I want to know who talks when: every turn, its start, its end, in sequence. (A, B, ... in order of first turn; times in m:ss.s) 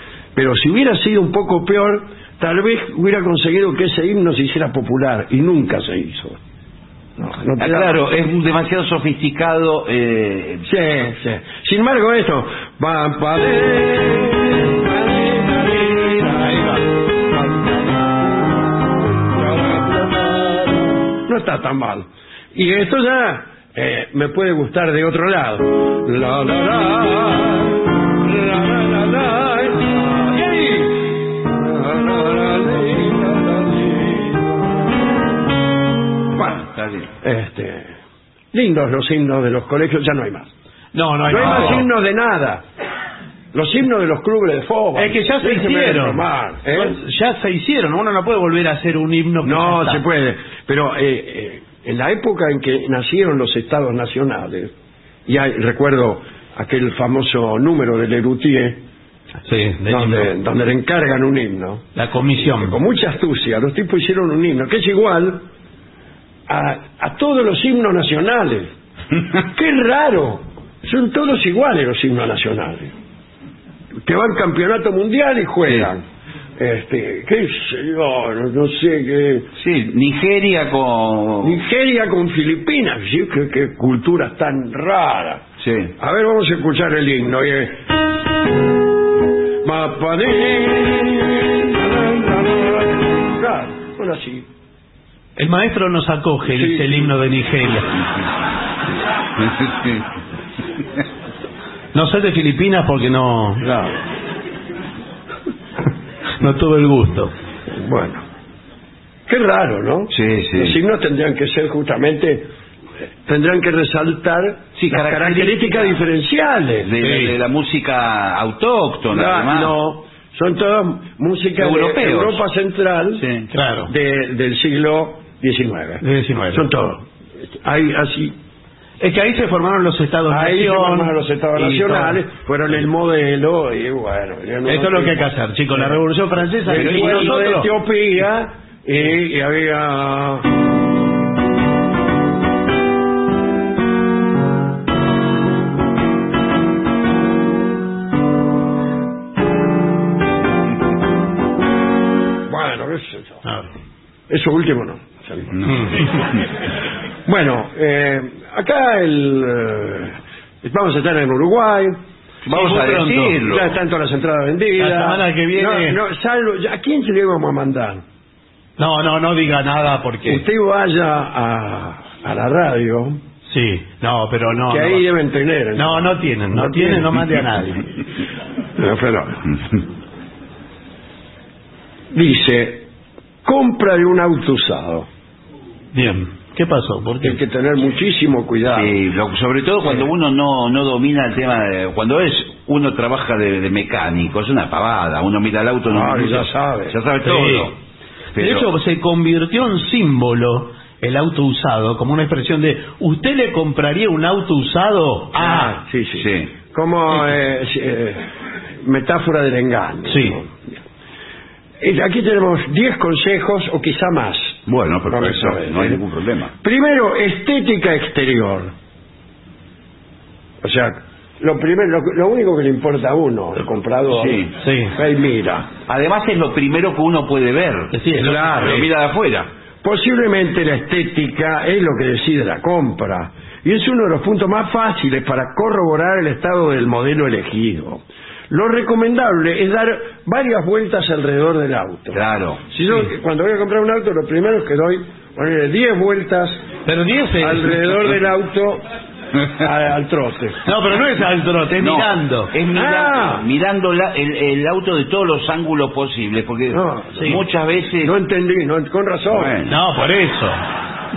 0:00.4-0:06.4 A
0:07.2-0:08.0 A
0:07.6-0:10.6 B
0:10.6-0:18.2 A
0:19.3-0:34.9 A
0:36.4-0:36.6 A
0:36.5-0:37.1 B
0:37.2-0:38.0 A
0:38.5-0:40.5 A
0:41.0-0:41.9 C
0:41.3-0:42.6 A
0:41.5-0:41.8 B
0:43.5-0:47.0 A
0:45.0-0:50.0 C
0:49.4-0:54.7 A
0:55.3-0:58.8 A
0:59.5-1:00.3 C
0:59.9-1:05.4 A
1:02.0-1:02.8 C
1:06.5-1:08.7 A
1:09.5-1:12.9 A
1:14.0-1:16.0 A
1:16.6-1:19.5 A
1:19.6-1:21.6 B
1:21.4-1:25.4 A
1:25.6-1:25.9 B
1:26.0-1:27.8 A
1:29.6-1:34.5 A
1:35.4-1:37.9 C
1:36.5-1:37.2 A
1:39.6-1:40.0 B
1:42.0-1:43.7 C
1:43.6-1:44.0 A
1:46.4-1:47.3 C
1:47.7-1:48.2 A
1:49.3-1:52.5 A
1:50.1-1:50.8 B
1:53.2-1:56.9 A
1:54.8-1:55.9 B
1:56.8-1:59.7 B
1:57.0-1:57.3 C
1:59.1-2:03.2 A
2:01.6-2:02.4 B
2:03.2-2:03.5 B
2:03.5-2:03.9 C
2:03.9-2:08.4 A
2:06.0-2:06.7 C
2:09.0-2:12.2 C
2:10.3-2:15.9 A
2:14.7-2:17.7 C
2:16.7-2:20.5 A
2:16.7-2:17.5 B
2:32.5-2:33.4 A
2:33.4-2:33.7 C
2:34.3-2:36.2 A
2:35.7-2:35.9 C
2:37.3-2:42.0 A
2:42.5-2:43.4 C
2:42.5-2:43.8 B
2:43.4-2:48.0 A
2:44.8-2:46.0 C
2:48.8-2:50.4 C
2:50.2-2:53.2 A
2:53.5-2:55.1 C
2:54.5-2:57.2 A
2:55.8-2:57.8 C
2:58.8-2:59.5 A
3:02.1-3:02.9 A
3:03.4-3:05.1 A
3:05.9-3:07.4 C
3:07.2-3:09.0 A
3:08.7-3:17.8 B
3:15.9-3:17.0 A
3:17.2-3:17.7 C
3:18.4-3:18.7 B
3:18.4-3:25.8 C
3:25.4-3:28.3 A
3:26.2-3:26.5 B
3:28.8-3:30.8 A
3:30.1-3:30.4 C
3:31.8-3:36.0 A
3:34.7-3:36.5 B
3:36.6-3:38.7 A
3:40.6-3:45.7 A
3:44.1-3:44.5 B
3:44.6-3:45.0 C
3:45.9-3:49.5 B
3:47.9-3:48.8 C
3:48.2-3:48.8 A
3:49.8-4:02.2 A
4:02.1-4:02.6 B
4:02.7-4:06.6 A
4:06.9-4:07.8 C
4:07.4-4:08.8 A
4:09.6-4:10.6 A
4:10.7-4:12.5 C
4:11.8-4:18.1 B
4:12.7-4:13.5 A
4:16.7-4:17.4 A
4:18.0-4:19.6 A
4:19.3-4:19.8 B
4:19.7-4:20.6 C